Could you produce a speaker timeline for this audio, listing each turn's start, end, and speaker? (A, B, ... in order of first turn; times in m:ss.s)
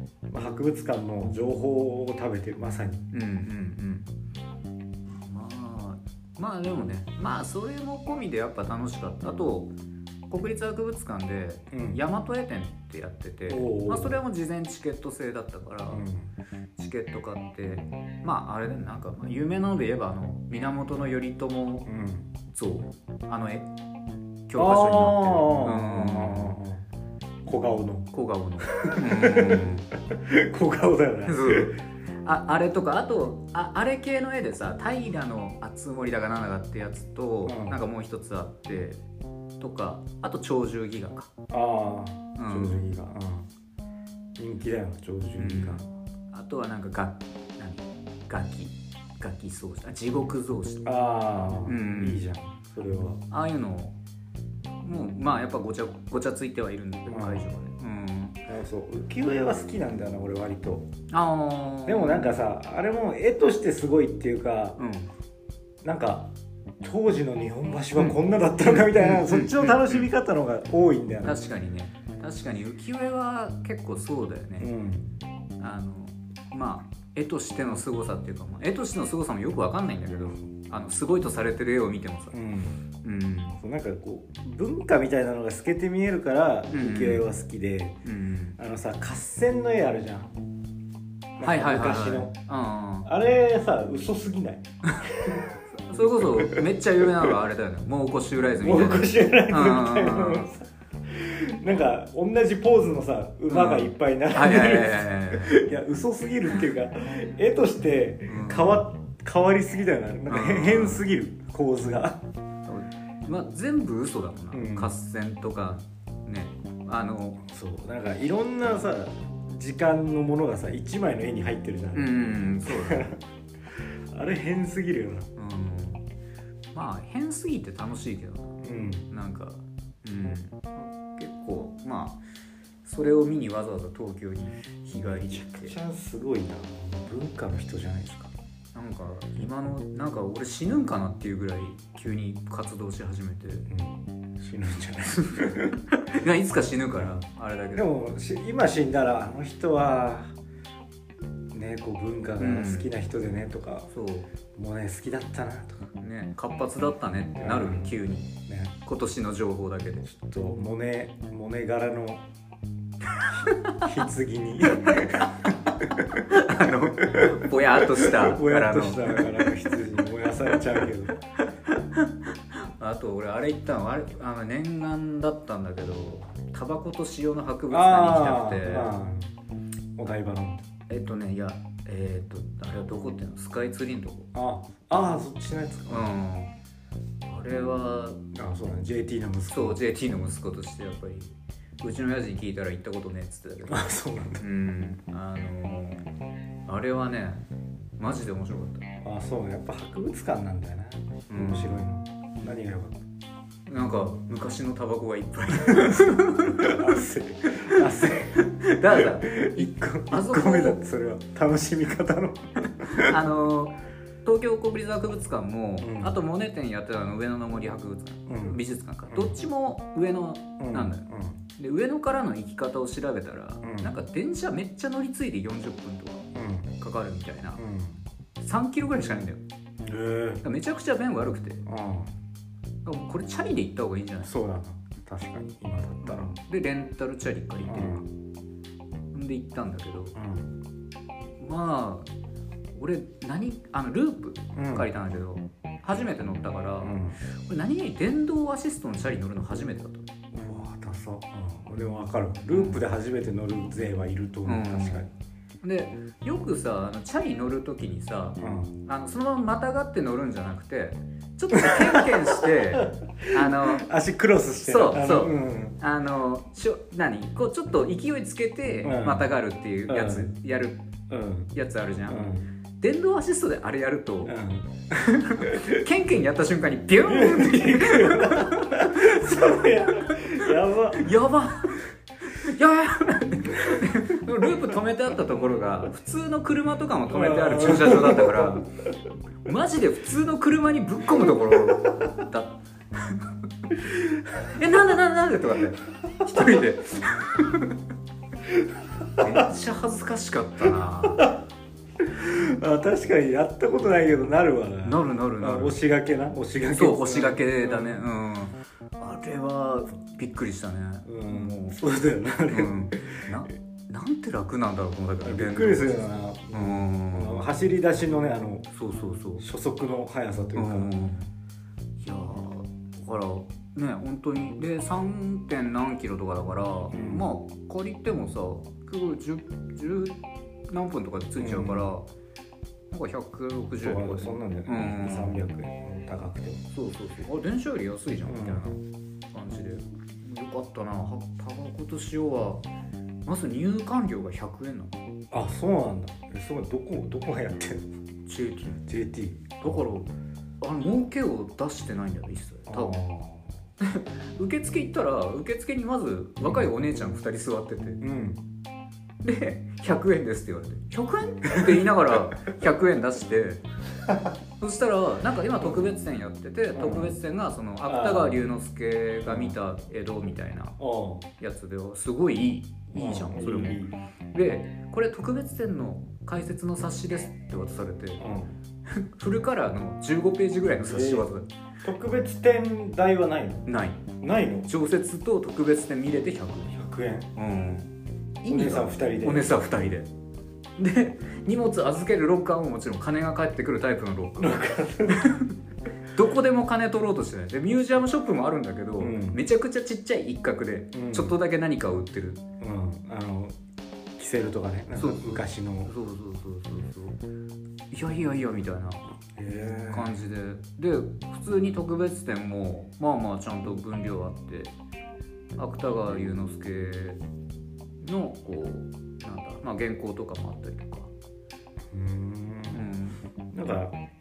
0:00.3-0:03.1 A
0:03.1-0:04.1 B
0:05.2-0:09.7 B
0:10.3-0:16.1 B
0:11.7-0:12.0 A
0:13.5-0:14.2 A
0:15.9-0:16.3 A
0:16.8-0:21.9 B
0:21.9-0:22.3 A
0:22.5-0:23.7 B
0:24.5-0:26.6 B
0:24.6-0:26.8 A
0:27.4-0:28.1 A
0:28.1-0:29.9 B
0:28.6-0:31.8 A
0:31.2-0:39.0 B
0:37.4-0:37.8 A
0:39.6-0:41.3 B
0:41.5-0:43.5 A
0:42.4-0:42.8 B
0:44.4-0:45.9 A
0:45.4-0:50.9 B
0:50.8-0:53.2 A
0:51.6-0:52.2 B
0:53.3-0:54.0 B
0:54.8-0:58.4 B
0:57.1-0:57.5 A
0:58.5-1:00.9 A
1:01.1-1:02.4 B
1:01.9-1:04.8 A
1:04.8-1:05.1 B
1:05.8-1:06.3 A
1:06.8-1:11.4 A
1:08.0-1:10.1 B
1:11.2-1:14.7 B
1:14.6-1:15.1 A
1:15.6-1:22.4 B
1:22.3-1:22.8 A
1:23.0-1:23.6 B
1:23.6-1:28.0 A
1:26.7-1:27.2 B
1:28.0-1:28.6 B
1:28.6-1:30.4 A
1:31.4-1:32.3 A
1:31.4-1:33.1 B
1:33.0-1:37.4 A
1:34.9-1:40.5 B
1:38.6-1:52.2 A
1:43.5-1:45.6 B
1:48.3-1:48.8 B
1:50.3-1:51.1 B
1:52.7-1:57.4 B
1:54.5-1:54.9 A
1:57.4-2:03.2 A
2:02.0-2:03.1 B
2:04.1-2:05.3 A
2:05.4-2:06.0 B
2:06.7-2:12.2 B
2:08.6-2:09.1 A
2:12.8-2:15.8 B
2:15.1-2:18.3 A
2:18.8-2:23.7 B
2:23.7-2:25.8 A
2:25.1-2:27.9 B
2:27.8-2:30.4 A
2:31.5-2:33.9 A
2:32.4-2:32.9 B
2:33.9-2:34.3 B
2:34.5-2:35.8 A
2:36.0-2:38.3 B
2:37.4-2:37.9 A
2:38.5-2:38.8 A
2:38.8-2:40.1 B
2:40.1-2:42.3 A
2:43.2-2:43.9 B
2:43.3-2:46.2 A
2:44.7-2:45.6 B
2:46.2-2:49.5 B
2:47.0-2:51.2 A
2:50.5-2:50.8 B
2:51.4-2:59.0 B
2:57.7-2:59.3 A
3:00.0-3:00.7 A
3:00.9-3:04.3 B
3:04.3-3:06.1 A
3:05.9-3:06.5 B
3:07.2-3:08.2 B
3:08.3-3:09.8 A
3:09.5-3:16.0 B
3:13.7-3:14.4 A
3:16.7-3:17.5 B
3:18.0-3:18.9 B
3:19.0-3:23.0 A
3:21.3-3:21.9 B
3:23.7-3:30.8 B
3:25.6-3:33.2 A
3:32.8-3:46.3 B
3:35.8-3:36.2 A
3:38.3-3:39.4 A
3:40.6-3:41.4 A
3:43.6-3:43.9 A
3:46.4-3:46.7 A
3:46.8-3:47.6 B
3:47.6-3:48.0 A
3:48.4-3:49.4 B
3:49.8-3:50.4 A
3:50.4-3:51.6 B
3:51.6-3:52.2 A
3:52.8-3:54.3 B
3:54.2-3:56.4 A
3:56.0-3:58.0 B
3:57.6-3:58.1 A
3:59.1-4:00.2 B
4:00.2-4:00.6 A
4:01.4-4:02.1 B
4:02.8-4:10.1 B
4:04.5-4:04.9 A
4:06.8-4:07.2 A
4:10.3-4:15.1 A
4:12.5-4:12.8 B
4:14.5-4:15.1 B
4:15.6-4:23.9 B
4:18.4-4:18.8 A
4:21.5-4:25.8 A
4:24.6-4:30.8 B
4:28.8-4:29.3 A
4:29.9-4:30.3 A
4:31.1-4:31.5 A
4:31.5-4:32.2 B
4:32.1-4:32.5 A
4:32.8-4:34.4 B
4:34.2-4:35.8 A
4:35.0-4:48.7 B
4:37.0-4:41.1 A
4:47.1-4:48.6 A
4:49.4-4:57.8 B
4:56.3-4:56.6 A
4:58.5-4:59.5 A
4:59.2-5:01.3 B
5:01.0-5:01.4 A
5:02.0-5:08.1 A
5:04.8-5:05.8 B
5:06.7-5:11.8 B
5:11.0-5:13.3 A
5:12.5-5:17.5 B
5:15.2-5:18.7 A
5:18.7-5:19.4 B
5:19.4-5:20.9 A
5:20.6-5:21.3 B
5:22.0-5:32.1 B
5:26.9-5:27.3 A
5:31.4-5:31.9 A
5:32.9-5:35.4 B
5:33.8-5:36.7 A
5:36.7-5:42.6 B
5:38.3-5:38.7 A
5:43.3-5:45.0 B
5:45.3-5:47.9 A
5:48.3-5:48.8 B
5:48.9-5:49.9 A
5:49.6-5:53.0 B
5:52.7-5:53.6 A
5:53.8-5:58.0 B
5:58.0-5:58.4 A
5:59.2-6:03.6 B
6:04.6-6:10.8 B
6:05.6-6:05.9 A
6:06.7-6:07.2 A
6:07.9-6:08.4 A
6:09.2-6:09.6 A
6:10.8-6:11.3 A
6:11.4-6:18.2 B
6:12.9-6:13.9 A
6:18.2-6:18.6 A
6:18.9-6:21.5 B
6:20.8-6:21.3 A
6:21.8-6:23.7 A
6:23.7-6:24.0 B
6:24.2-6:24.7 A
6:24.7-6:26.8 B
6:26.7-6:27.3 A
6:27.4-6:27.9 B
6:28.4-6:30.1 B
6:28.5-6:29.6 A
6:30.8-6:35.6 B
6:34.4-6:35.4 A
6:36.1-6:42.4 B
6:39.0-6:39.4 A
6:40.9-6:41.4 A
6:42.6-6:43.6 A
6:44.2-6:45.9 A
6:45.0-6:47.2 B
6:47.9-6:49.0 B
6:49.4-6:50.2 A
6:49.9-6:54.7 B
6:55.6-6:57.2 B
6:58.0-7:01.1 B
7:01.9-7:02.9 A
7:02.7-7:03.2 B
7:03.5-7:04.0 A